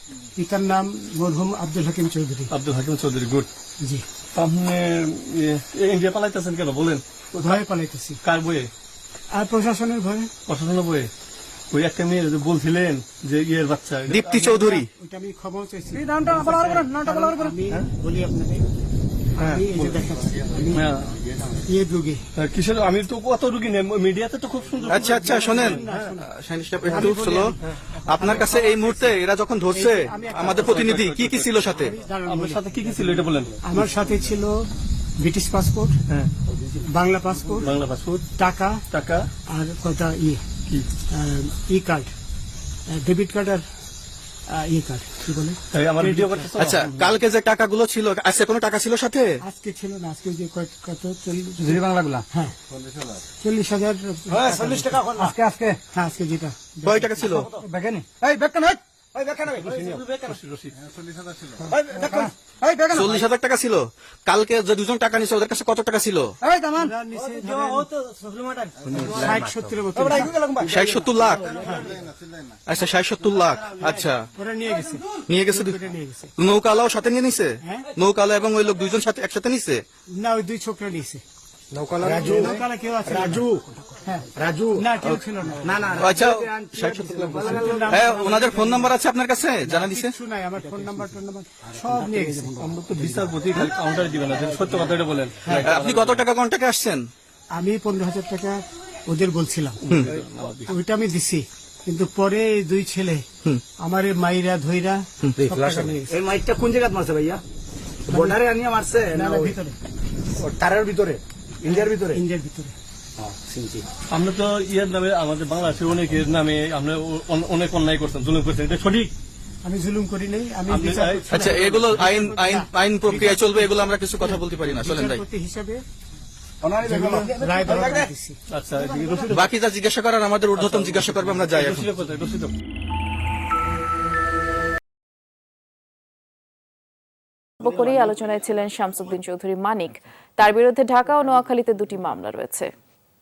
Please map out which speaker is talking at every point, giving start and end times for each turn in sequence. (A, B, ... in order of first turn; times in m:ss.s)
0:00.4-0:02.5 A
0:02.5-0:03.5 B
0:04.4-0:07.6 B
0:07.4-0:08.2 A
0:08.2-0:08.7 B
0:09.3-0:10.3 A
0:10.5-0:11.1 B
0:11.7-0:14.2 B
0:14.1-0:14.9 C
0:14.3-0:18.7 A
0:15.9-0:17.6 D
0:19.4-0:20.0 B
0:19.4-0:20.8 A
0:20.7-0:21.2 B
0:21.7-0:22.2 A
0:22.4-0:26.1 B
0:24.9-0:31.9 C
0:25.0-0:26.3 A
0:26.9-0:27.6 A
0:28.2-0:29.1 A
0:29.7-0:30.9 A
0:30.5-0:33.7 B
0:31.8-0:32.6 A
0:33.6-0:34.6 A
0:35.2-0:36.0 A
0:36.9-0:37.7 A
0:37.6-0:38.3 B
0:38.4-0:38.8 A
0:38.9-0:39.2 B
0:39.5-0:40.4 A
0:41.1-0:42.1 A
0:42.9-0:43.6 A
0:44.5-0:46.5 A
0:45.7-0:47.1 B
0:46.6-0:49.4 C
0:49.4-0:52.6 A
0:51.6-0:52.2 D
0:53.4-0:55.3 A
0:54.3-0:55.8 D
0:55.9-0:57.5 A
0:56.8-0:57.5 C
0:57.3-1:00.3 D
0:59.6-1:00.8 B
1:01.6-1:03.2 D
1:02.9-1:06.4 C
1:06.4-1:11.7 D
1:06.8-1:07.9 A
1:09.0-1:10.4 A
1:10.6-1:11.6 C
1:11.4-1:12.0 A
1:12.7-1:14.3 C
1:14.4-1:16.3 A
1:15.3-1:15.8 C
1:16.4-1:19.8 C
1:17.6-1:17.9 A
1:20.2-1:21.2 A
1:21.7-1:23.7 D
1:22.0-1:26.1 A
1:24.4-1:24.9 D
1:25.6-1:28.0 D
1:26.0-1:30.1 C
1:27.4-1:28.9 A
1:29.7-1:33.3 A
1:31.9-1:36.2 B
1:35.5-1:37.1 C
1:37.6-1:39.8 A
1:39.8-1:40.7 B
1:40.7-1:43.2 A
1:43.8-1:46.2 A
1:45.4-1:47.4 D
1:48.1-1:49.6 D
1:48.1-1:48.4 A
1:49.1-1:49.8 A
1:50.4-1:52.2 D
1:51.7-1:52.8 A
1:53.2-1:53.9 D
1:54.1-1:59.1 B
1:59.6-2:05.8 A
2:00.7-2:01.5 B
2:01.3-2:05.2 C
2:06.6-2:08.1 D
2:06.8-2:08.4 A
2:08.5-2:09.5 B
2:08.9-2:09.2 D
2:09.3-2:11.9 C
2:10.6-2:12.5 B
2:17.6-2:22.7 E